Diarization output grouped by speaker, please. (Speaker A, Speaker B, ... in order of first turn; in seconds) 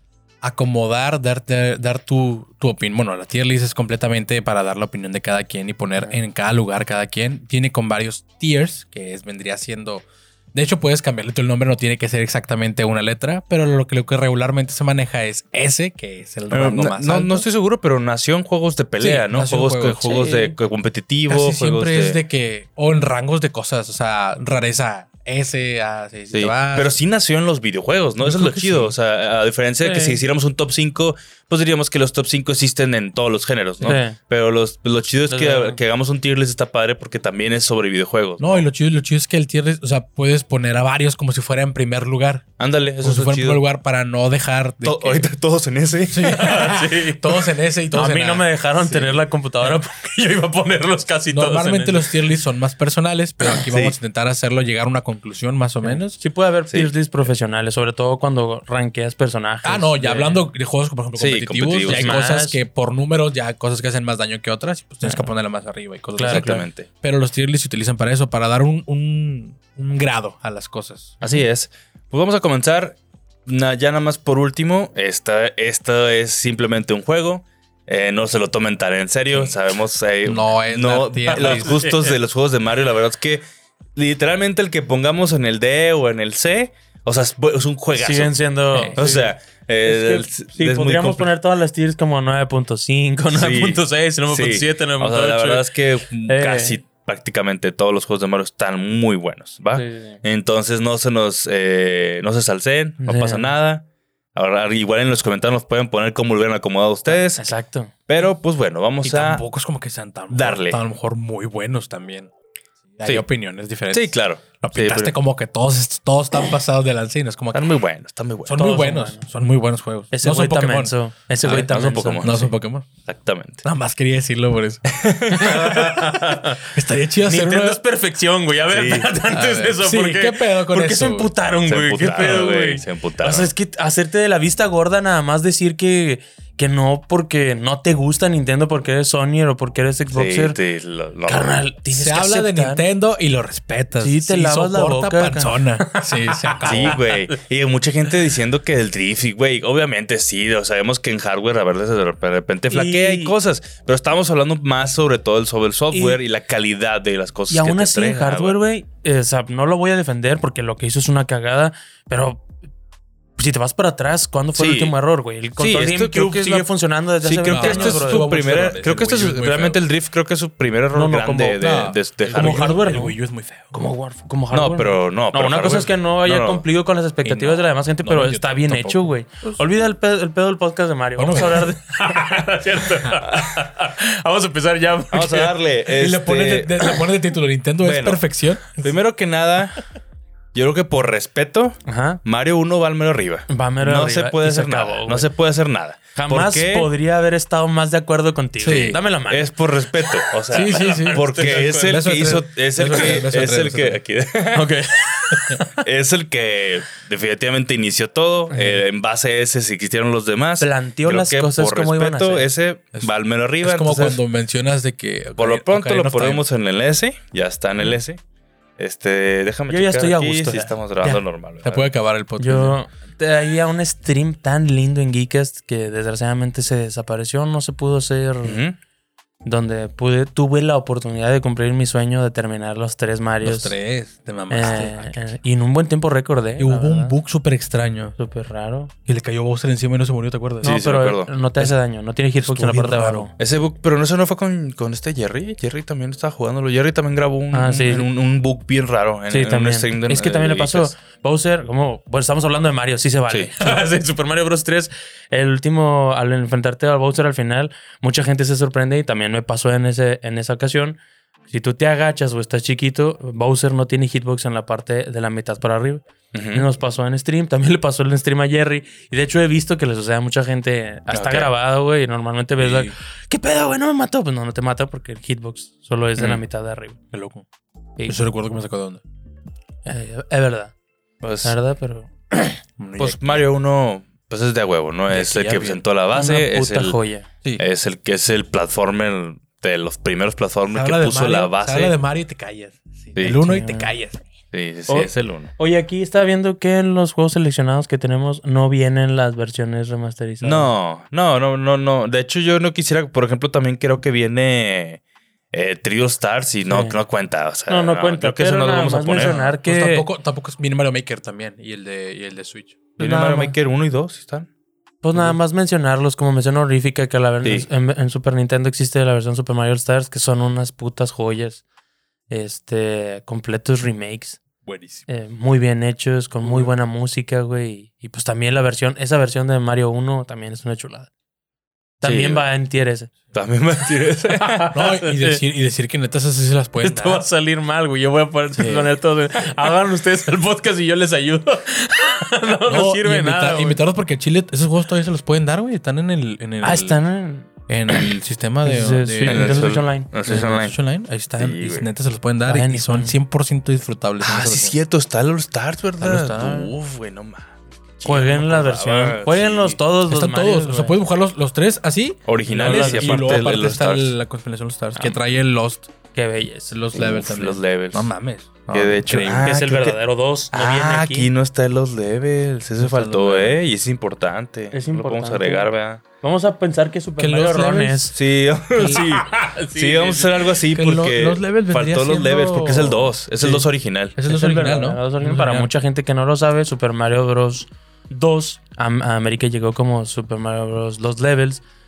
Speaker A: 0.4-17.4, 19.0-20.3, 21.3-26.9, 28.2-28.9, 38.4-42.5, 43.0-45.3, 46.1-48.5, 51.3-56.2, 59.6-71.2, 80.2-81.8, 88.7-89.0, 109.0-112.3, 113.0-117.7, 118.4-122.9, 123.6-127.8, 129.3-131.3, 141.9-147.0, 167.4-169.8, 171.6-173.7, 177.2-179.6, 181.2-181.7, 185.9-188.9, 198.6-199.0, 200.5-204.0, 213.6-216.4, 221.6-222.8, 233.4-235.2, 236.6-238.1, 239.0-240.8, 242.4-243.3, 272.6-272.9, 277.1-277.4, 278.1-279.0, 282.8-283.4, 285.1-285.8, 290.7-294.2, 309.1-313.5, 324.6-325.0, 334.7-337.2, 342.7-347.0, 347.7-354.8, 356.0-356.7, 360.1-365.9, 366.7-369.5, 372.8-373.6, 377.2-378.1, 380.7-385.7
Speaker B: 6.0-6.2, 20.1-20.5, 29.8-30.2, 33.8-34.2, 35.3-35.8, 46.2-52.1, 55.8-60.5, 61.9-62.6, 66.2-66.6, 81.3-82.2, 87.9-95.6, 96.3-96.8, 99.7-100.2, 103.0-103.5, 107.1-107.9, 118.6-119.2, 120.1-122.4, 125.3-126.6, 127.2-140.6, 141.2-142.8, 144.0-147.2, 152.7-153.3, 155.9-156.2, 157.5-162.5, 163.4-168.2, 170.9-171.6, 172.3-173.2, 173.7-185.5, 191.8-192.2, 193.5-195.3, 196.1-199.5, 200.3-201.9, 204.5-205.8, 208.5-208.8, 210.6-212.5, 219.7-221.2, 222.4-228.6, 229.4-233.7, 234.5-237.2, 238.2-238.9, 240.6-243.3, 247.5-248.1, 249.3-277.0, 279.8-280.7, 281.4-282.6, 286.1-287.3, 293.4-293.9, 294.9-300.7, 306.7-307.0, 307.7-310.1, 313.0-313.5, 315.0-321.6, 322.3-324.4, 325.1-331.1, 332.0-333.1, 334.4-335.4, 336.8-343.8, 346.6-348.1, 348.6-350.1, 352.4-353.1, 358.0-360.9, 362.5-363.2, 366.1-366.8, 369.4-371.3, 374.7-378.1, 378.8-380.5, 384.2-391.6
Speaker C: 16.5-22.2, 26.3-38.6, 42.6-43.6, 44.8-46.6, 53.6-54.0, 61.2-62.1, 66.3-66.9, 71.2-83.4, 84.0-88.4, 89.0-91.3, 93.3-107.5, 108.1-109.4, 110.3-110.8, 113.9-115.1, 117.5-118.6, 121.4-122.5, 123.0-123.6, 124.9-125.9, 128.7-129.1, 131.6-133.5, 140.1-141.6, 146.6-158.6, 164.5-164.9, 165.6-166.7, 167.2-172.7, 174.5-176.6, 185.1-186.8, 187.8-189.8, 190.5-196.9, 199.3-204.8, 205.8-214.2, 215.4-218.2, 218.8-221.9, 228.4-228.8, 240.6-241.3, 243.4-250.9, 253.3-253.7, 266.3-266.6, 271.1-271.5, 276.2-276.4, 281.2-281.5, 283.0-287.0, 287.6-291.9, 293.1-293.5, 294.5-295.5, 300.4-305.0, 305.5-309.4, 313.0-314.5, 317.4-317.7, 332.0-332.4, 333.3-334.6, 349.2-350.8, 351.3-351.9, 354.2-359.8, 362.3-364.1, 366.9-368.1, 368.7-370.0, 370.5-376.0, 378.1-384.1